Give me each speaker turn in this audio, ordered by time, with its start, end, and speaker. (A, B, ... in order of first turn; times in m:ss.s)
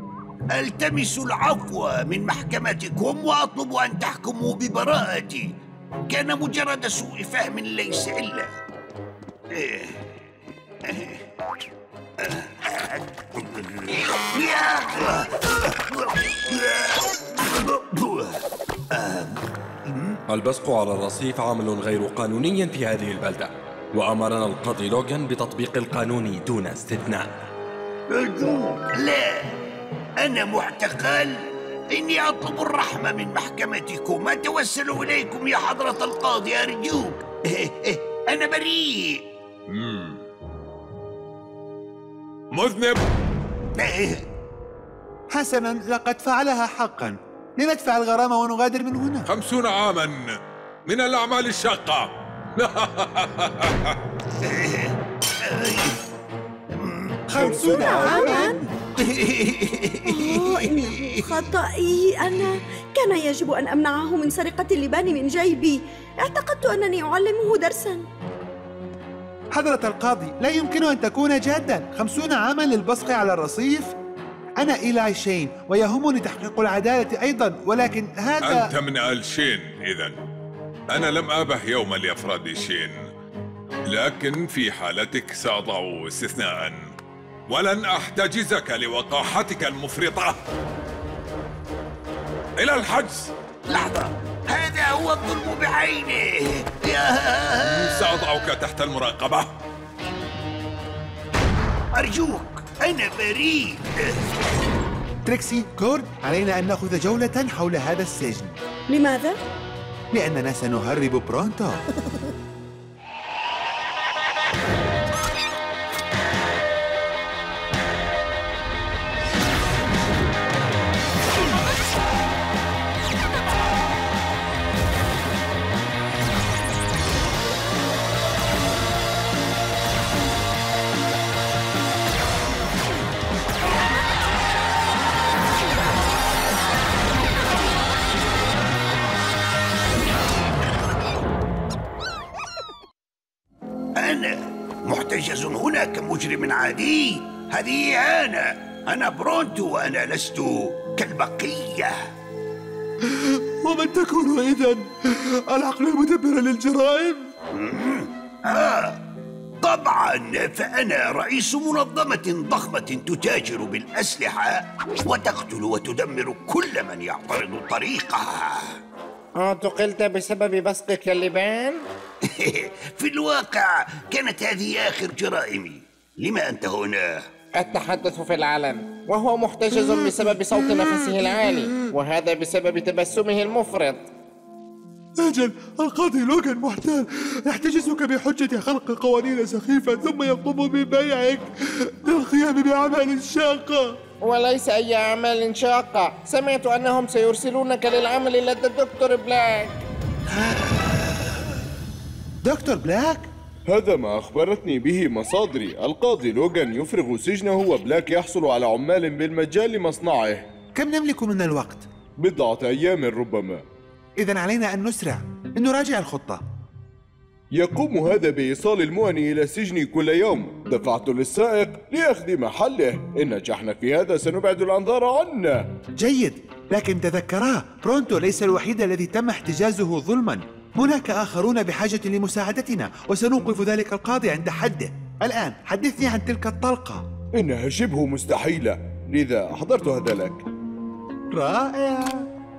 0:00.5-0:05.5 A
0:06.1-0:08.5 A
0:09.5-0:10.0 A
0:10.8-0:11.2 A
0:12.2-0:20.2 A
0:20.3-0:27.5 B
0:28.1-0:29.5 A
0:30.2-0:39.2 A
0:39.7-0:40.2 C
0:42.5-0:43.0 C
0:43.8-0:44.2 A
0:45.3-0:49.3 D
0:49.3-0:54.0 C
0:54.4-0:56.0 A
0:56.7-0:57.2 A
0:57.3-0:58.7 D
0:57.3-0:58.5 E
0:57.6-0:58.6 F
0:59.0-1:01.2 A
1:00.0-1:08.0 F
1:09.5-1:13.9 D
1:14.6-1:18.7 D
1:18.4-1:20.1 C
1:20.9-1:23.0 C
1:23.9-1:26.9 C
1:27.5-1:30.4 C
1:32.6-1:33.3 C
1:33.7-1:38.1 A
1:37.6-1:39.5 C
1:41.9-1:44.2 A
1:45.2-1:48.6 D
1:48.9-1:49.4 F
1:50.1-1:51.8 D
2:24.0-2:32.1 A
2:33.6-2:37.3 D
2:37.5-2:39.0 A
2:39.6-2:48.8 A
2:49.4-2:51.8 G
2:52.2-2:57.3 A
2:57.5-3:04.1 G
3:05.2-3:14.0 D
3:14.2-3:19.8 G
3:22.4-3:23.3 D
3:23.7-3:30.5 E
3:30.8-3:31.9 D
3:32.2-3:33.6 E
3:34.2-3:36.4 D
3:37.5-3:45.7 E
3:46.0-3:57.0 D
3:57.3-4:00.4 E
4:01.3-4:02.3 D